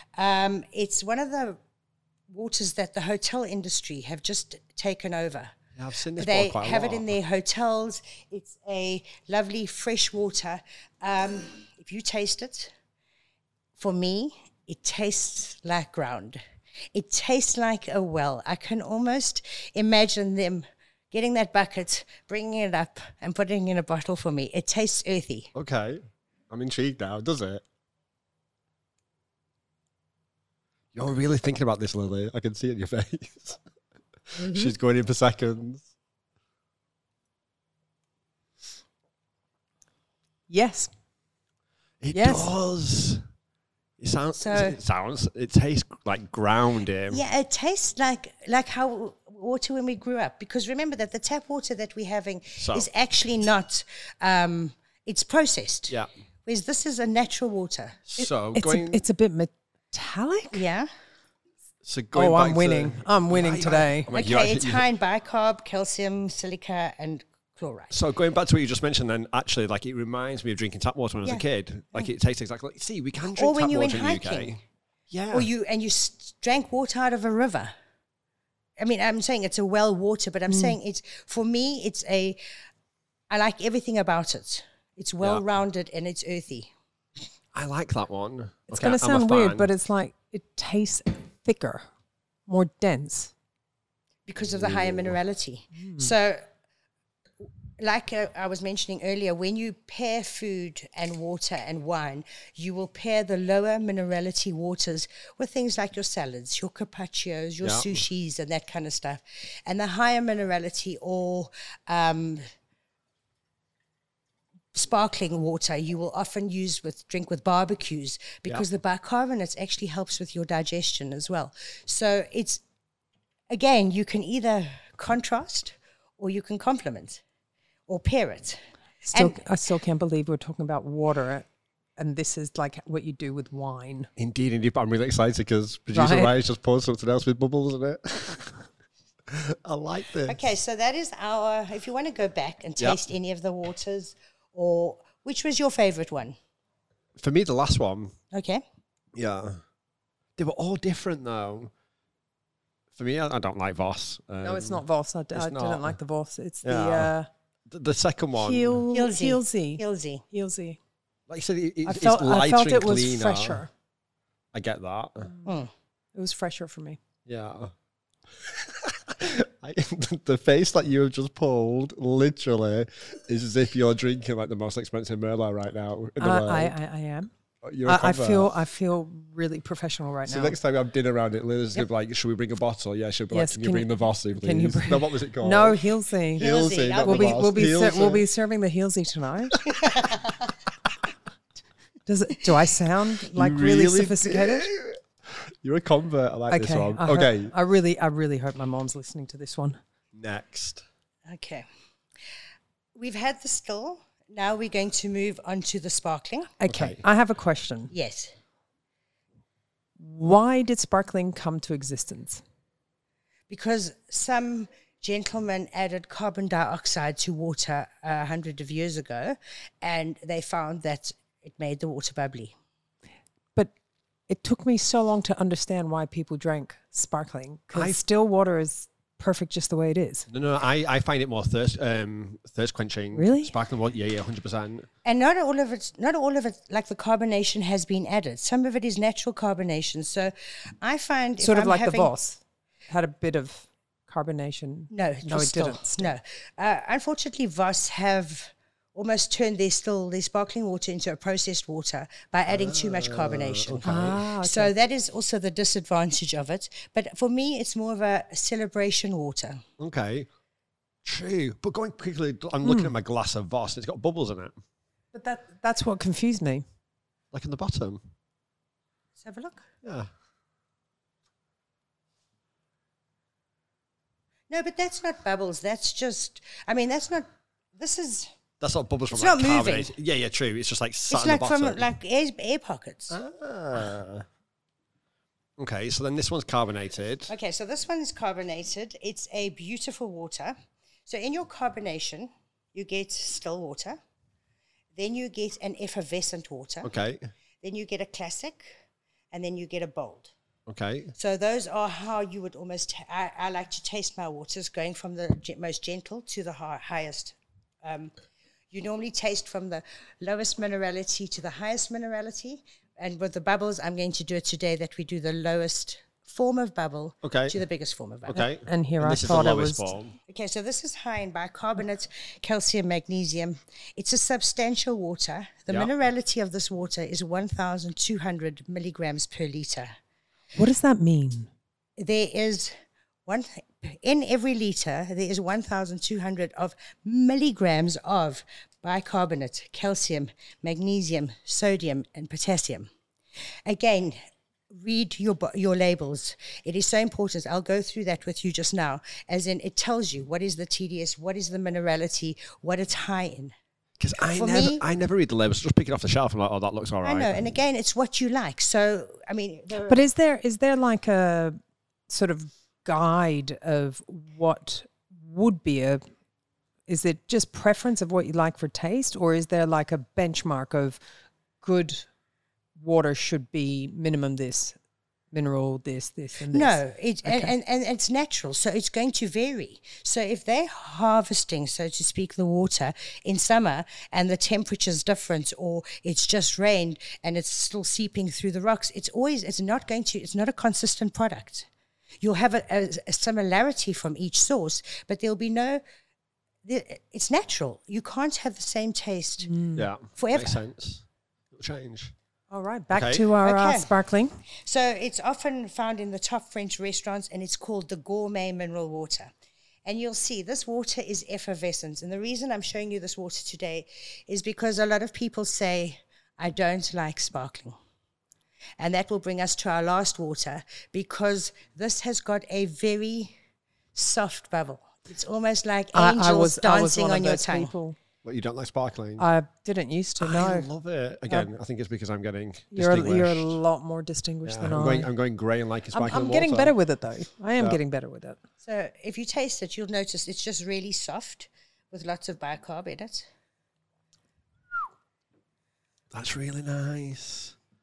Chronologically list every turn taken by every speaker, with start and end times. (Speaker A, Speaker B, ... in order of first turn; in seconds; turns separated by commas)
Speaker A: 0.2-1.6, Speaker A: 2.3-5.5, Speaker B: 5.8-7.2, Speaker A: 6.2-12.7, Speaker A: 13.8-16.4, Speaker A: 16.9-25.5, Speaker B: 25.5-27.6, Speaker B: 30.9-33.6, Speaker A: 34.3-34.7, Speaker B: 34.3-35.9, Speaker C: 40.5-40.9, Speaker B: 42.0-43.2, Speaker C: 42.1-42.5, Speaker B: 44.0-47.2, Speaker A: 44.3-44.8, Speaker A: 47.1-58.0, Speaker B: 52.6-52.9, Speaker B: 58.1-59.0, Speaker C: 58.2-60.6, Speaker A: 60.5-60.9, Speaker B: 61.8-64.8, Speaker C: 62.1-64.1, Speaker A: 64.1-67.9, Speaker B: 67.9-74.6, Speaker A: 71.2-72.1, Speaker A: 73.2-74.6, Speaker B: 75.1-75.5, Speaker A: 75.3-77.7, Speaker A: 78.8-82.4, Speaker C: 80.5-80.8, Speaker A: 83.3-86.7, Speaker B: 87.5-89.7, Speaker C: 88.7-91.8, Speaker C: 92.5-93.3, Speaker A: 94.3-96.4, Speaker B: 94.5-95.1, Speaker C: 95.8-96.1, Speaker A: 97.8-112.4, Speaker B: 107.6-108.0, Speaker A: 114.7-122.6, Speaker A: 123.5-127.2, Speaker A: 127.9-128.6, Speaker C: 129.0-131.4, Speaker A: 129.1-129.4, Speaker C: 132.0-134.1, Speaker B: 134.2-138.6, Speaker C: 135.9-136.3, Speaker B: 139.3-140.4, Speaker A: 140.3-146.4, Speaker B: 147.2-148.1, Speaker A: 148.3-148.6, Speaker B: 149.1-149.6, Speaker B: 150.4-151.7, Speaker B: 152.9-155.9, Speaker C: 154.4-157.3, Speaker B: 156.6-157.1, Speaker B: 157.7-158.8, Speaker C: 158.4-160.8, Speaker A: 158.9-160.2, Speaker B: 161.3-163.6, Speaker C: 161.8-163.7, Speaker B: 164.5-165.3, Speaker A: 165.4-165.7, Speaker C: 166.1-167.0, Speaker B: 167.2-167.7, Speaker B: 168.4-176.7, Speaker C: 176.2-177.3, Speaker B: 177.6-178.5, Speaker C: 177.8-180.6, Speaker B: 180.2-188.2, Speaker C: 183.3-189.6, Speaker A: 186.4-188.2, Speaker A: 189.7-190.5, Speaker C: 192.1-194.7, Speaker B: 193.3-197.5, Speaker C: 196.5-199.8, Speaker B: 200.1-200.8, Speaker A: 201.3-201.7, Speaker A: 202.9-206.6, Speaker C: 206.6-207.9, Speaker B: 206.7-207.0, Speaker A: 207.9-208.3, Speaker C: 210.0-212.4, Speaker A: 213.5-222.5, Speaker C: 224.3-230.3, Speaker B: 230.3-234.9, Speaker C: 233.1-233.5, Speaker A: 235.0-242.1, Speaker C: 241.4-246.1, Speaker A: 244.9-259.6, Speaker B: 252.5-254.2, Speaker C: 253.8-254.7, Speaker B: 259.8-260.3, Speaker B: 261.0-264.5, Speaker C: 262.6-262.9, Speaker C: 265.1-266.6, Speaker B: 267.3-268.0, Speaker A: 269.2-269.6, Speaker B: 269.8-270.1, Speaker A: 274.5-278.3, Speaker B: 278.6-281.9, Speaker A: 279.1-279.9, Speaker A: 281.1-283.2, Speaker B: 283.1-284.2, Speaker B: 285.6-287.3, Speaker A: 287.3-290.5, Speaker A: 291.1-294.0, Speaker A: 294.9-296.9, Speaker B: 296.8-297.3, Speaker A: 297.6-298.8, Speaker A: 299.3-300.3, Speaker B: 300.7-301.1, Speaker A: 301.1-308.1, Speaker A: 308.7-318.4, Speaker B: 317.2-317.5, Speaker B: 318.3-320.1, Speaker C: 318.6-319.9, Speaker A: 320.3-329.9, Speaker C: 330.6-331.5, Speaker A: 332.0-332.7, Speaker A: 333.3-342.9, Speaker A: 343.6-344.2, Speaker A: 344.7-353.5, Speaker B: 354.0-357.4, Speaker A: 354.2-354.8, Speaker A: 357.0-360.0, Speaker C: 359.9-366.0, Speaker C: 366.9-371.0, Speaker C: 371.6-372.1, Speaker C: 372.8-374.8, Speaker C: 375.3-377.5, Speaker A: 376.5-391.7, Speaker A: 392.2-395.8, Speaker A: 396.6-399.5, Speaker C: 399.4-399.9, Speaker B: 399.7-402.1, Speaker A: 400.1-400.6, Speaker C: 402.5-404.3, Speaker B: 402.9-403.3, Speaker A: 403.4-403.9, Speaker A: 404.6-409.3, Speaker A: 409.8-417.8, Speaker A: 418.8-423.3, Speaker A: 423.9-427.7, Speaker C: 425.9-427.9, Speaker B: 428.2-429.3, Speaker C: 429.2-430.7, Speaker B: 430.2-433.6, Speaker C: 432.7-435.1, Speaker B: 434.4-436.8, Speaker C: 435.9-438.4, Speaker A: 438.6-443.3, Speaker B: 446.1-447.5